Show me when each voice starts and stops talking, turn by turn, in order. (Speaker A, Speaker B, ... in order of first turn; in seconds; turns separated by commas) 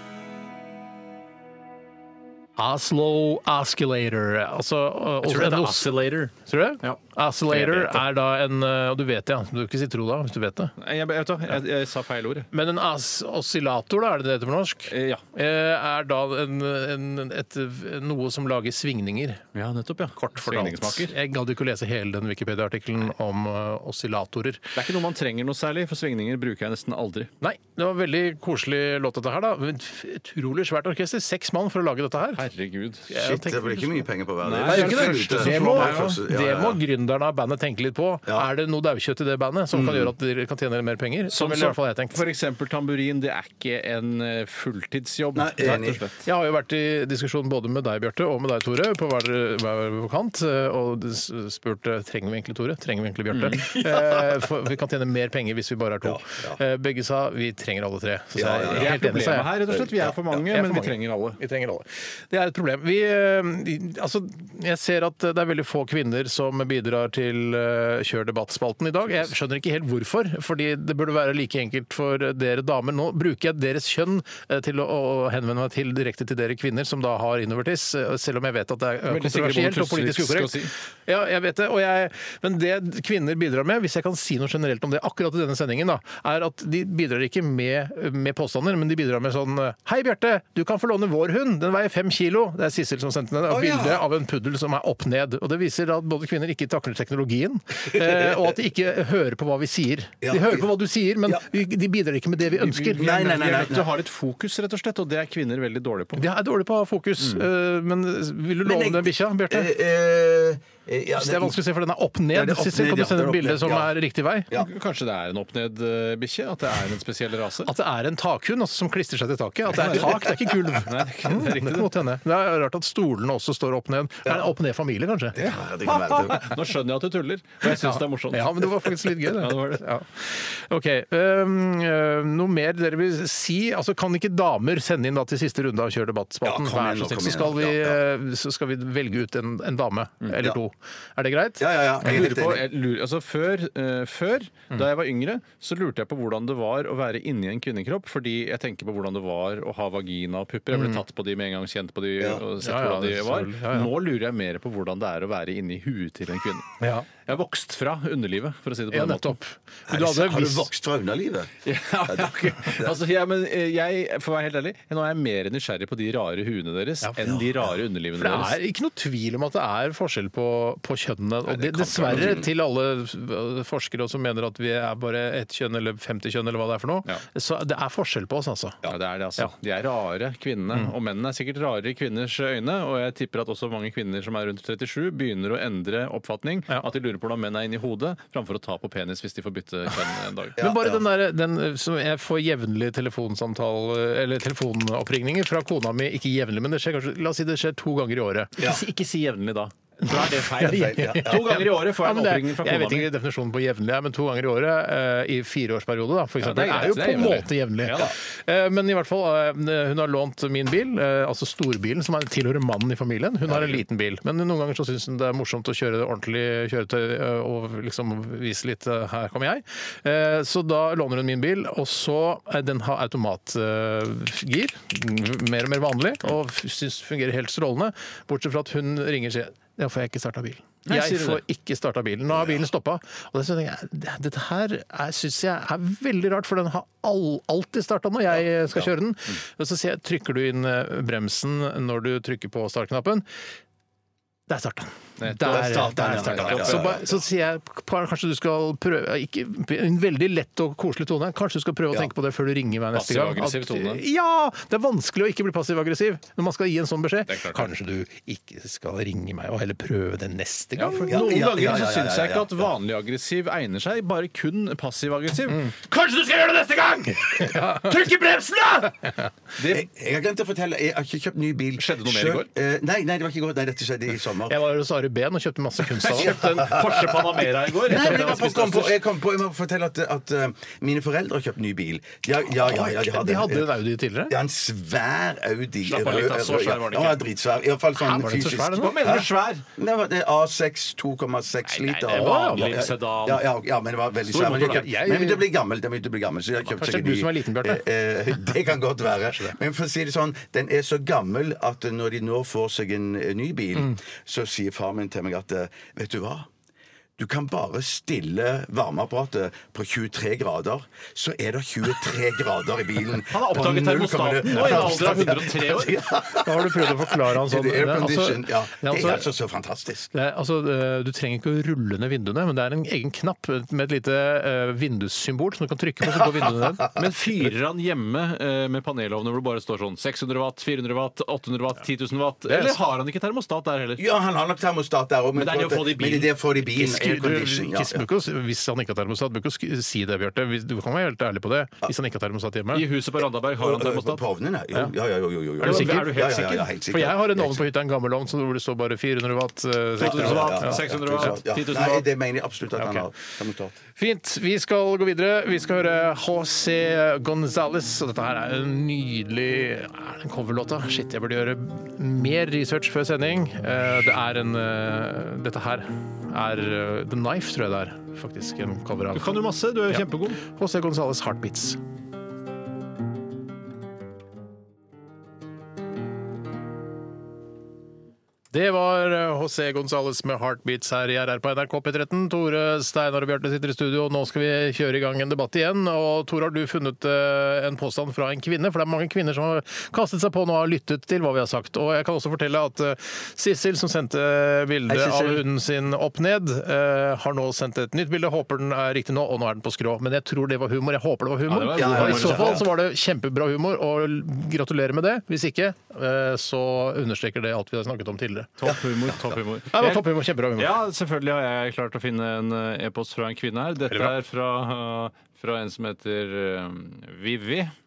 Speaker A: 2.6-10.7, Speaker B: 5.2-8.0, Speaker B: 10.8-12.5, Speaker A: 12.5-19.4, Speaker B: 14.9-15.2, Speaker B: 19.6-21.1, Speaker A: 20.2-24.6, Speaker B: 24.8-27.3, Speaker A: 27.4-32.4, Speaker B: 32.4-33.1, Speaker A: 33.1-34.1, Speaker C: 33.1-36.8, Speaker B: 34.4-36.1, Speaker A: 34.6-42.2, Speaker C: 39.7-40.1, Speaker B: 41.3-46.2, Speaker C: 45.4-46.0, Speaker A: 45.6-59.5, Speaker B: 53.3-53.8, Speaker C: 56.0-56.6, Speaker C: 58.4-59.0, Speaker B: 58.7-61.4, Speaker C: 59.7-60.4, Speaker A: 60.5-103.2, Speaker B: 79.1-80.7, Speaker C: 93.5-94.0, Speaker C: 97.9-98.5, Speaker C: 100.2-100.7, Speaker B: 102.6-106.2, Speaker C: 103.0-103.9, Speaker A: 106.2-109.7, Speaker B: 107.2-107.5, Speaker C: 108.6-111.6, Speaker A: 111.2-114.5, Speaker C: 112.3-113.9, Speaker B: 114.5-117.7, Speaker A: 117.7-125.6, Speaker B: 119.7-121.9, Speaker C: 124.2-124.5, Speaker C: 125.3-126.5, Speaker B: 125.9-129.8, Speaker A: 127.6-142.3, Speaker C: 136.4-138.0, Speaker C: 141.6-142.7, Speaker B: 142.1-159.4, Speaker A: 150.7-151.0, Speaker A: 152.6-153.9, Speaker A: 156.8-157.1, Speaker A: 158.9-160.7, Speaker C: 159.9-161.5, Speaker B: 161.7-168.6, Speaker C: 162.1-163.0, Speaker C: 167.3-167.7, Speaker A: 168.2-178.8, Speaker B: 171.5-172.4, Speaker C: 172.1-172.5, Speaker B: 178.9-190.6, Speaker C: 190.6-191.1, Speaker A: 190.6-198.6, Speaker B: 198.6-203.1, Speaker A: 200.0-243.2, Speaker C: 200.6-201.7, Speaker B: 206.4-208.1, Speaker C: 213.5-213.8, Speaker B: 230.9-231.4, Speaker C: 232.3-232.6, Speaker C: 238.3-238.9, Speaker A: 244.5-261.2, Speaker B: 245.2-247.0, Speaker C: 245.4-247.2, Speaker B: 252.9-254.0, Speaker B: 257.3-257.7, Speaker B: 260.8-269.0, Speaker C: 261.1-262.7, Speaker A: 267.2-267.9, Speaker B: 269.6-269.9, Speaker C: 269.6-274.6, Speaker B: 271.8-272.5, Speaker A: 274.5-276.4, Speaker B: 276.0-278.9, Speaker C: 276.4-283.8, Speaker A: 277.9-278.5, Speaker A: 282.6-284.3, Speaker C: 284.3-306.5, Speaker B: 285.9-287.2, Speaker A: 288.0-288.9, Speaker B: 288.8-289.6, Speaker B: 291.7-293.4, Speaker A: 292.1-292.8, Speaker B: 294.3-294.8, Speaker A: 294.3-295.4, Speaker A: 296.7-297.8, Speaker C: 307.2-320.1, Speaker B: 313.3-316.0, Speaker A: 314.6-315.2, Speaker A: 316.3-319.3, Speaker A: 320.1-326.9, Speaker C: 326.2-326.6, Speaker B: 326.9-334.0, Speaker A: 332.5-332.8, Speaker C: 334.0-338.1, Speaker B: 335.4-336.3, Speaker A: 336.7-342.8, Speaker B: 342.7-344.2, Speaker C: 343.6-347.6, Speaker A: 345.6-346.2, Speaker B: 345.6-346.7, Speaker A: 346.9-351.3, Speaker B: 350.0-352.1, Speaker C: 350.0-353.8, Speaker A: 352.8-353.1, Speaker A: 354.0-371.8, Speaker B: 369.1-370.4, Speaker A: 378.5-408.5, Speaker C: 394.9-395.4, Speaker B: 401.5-402.6, Speaker C: 401.7-402.7, Speaker B: 408.6-417.7, Speaker C: 408.6-409.1, Speaker A: 409.7-410.7